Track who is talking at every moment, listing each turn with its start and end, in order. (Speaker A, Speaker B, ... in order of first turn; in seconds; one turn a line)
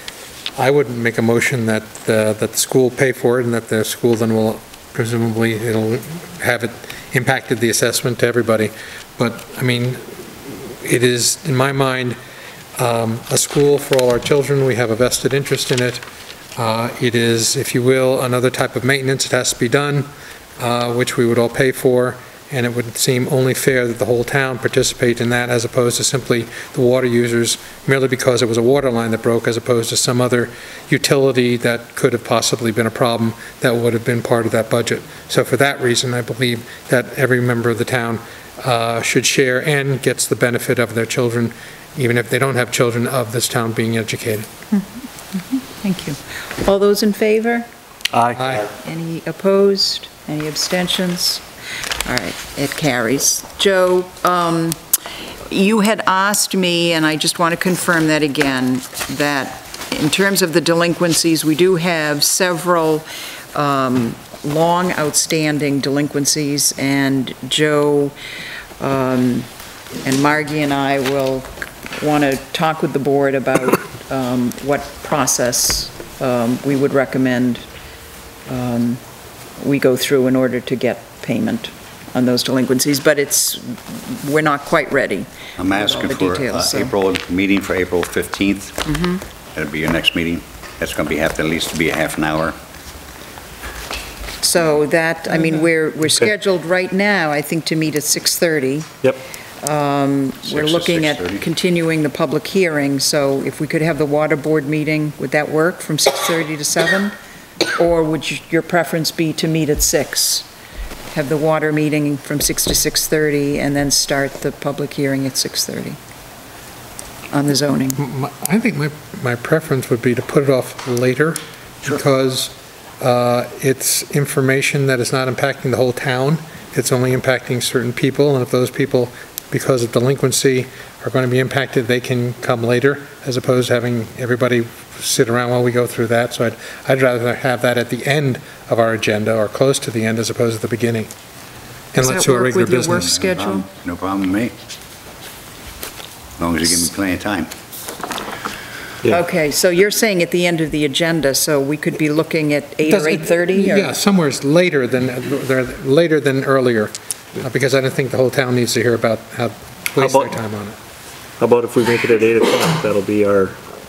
Speaker A: 0.6-12.2
Speaker A: 12.8-16.0
Speaker A: 16.6-20.1
Speaker A: 20.6-44.5
Speaker B: 44.7-47.7
Speaker A: 48.4-48.7
Speaker B: 48.7-51.4
Speaker B: 52.0-54.8
Speaker B: 55.5-68.1
Speaker B: 68.8-69.5
Speaker B: 70.0-77.6
Speaker B: 78.5-79.0
Speaker B: 79.6-86.9
Speaker C: 85.6-88.8
Speaker B: 88.9-89.2
Speaker C: 89.5-92.5
Speaker B: 94.4-98.9
Speaker B: 99.6-107.1
Speaker C: 100.5-101.4
Speaker B: 107.7-110.5
Speaker B: 111.1-116.0
Speaker B: 117.3-118.0
Speaker A: 118.0-141.1
Speaker A: 141.9-143.1
Speaker B: 142.0-143.7
Speaker C: 143.0-144.5
Speaker C: 146.4-147.5
Speaker B: 149.0-153.9
Speaker A: 152.8-160.8
Speaker D: 160.0-160.4
Speaker D: 161.4-163.6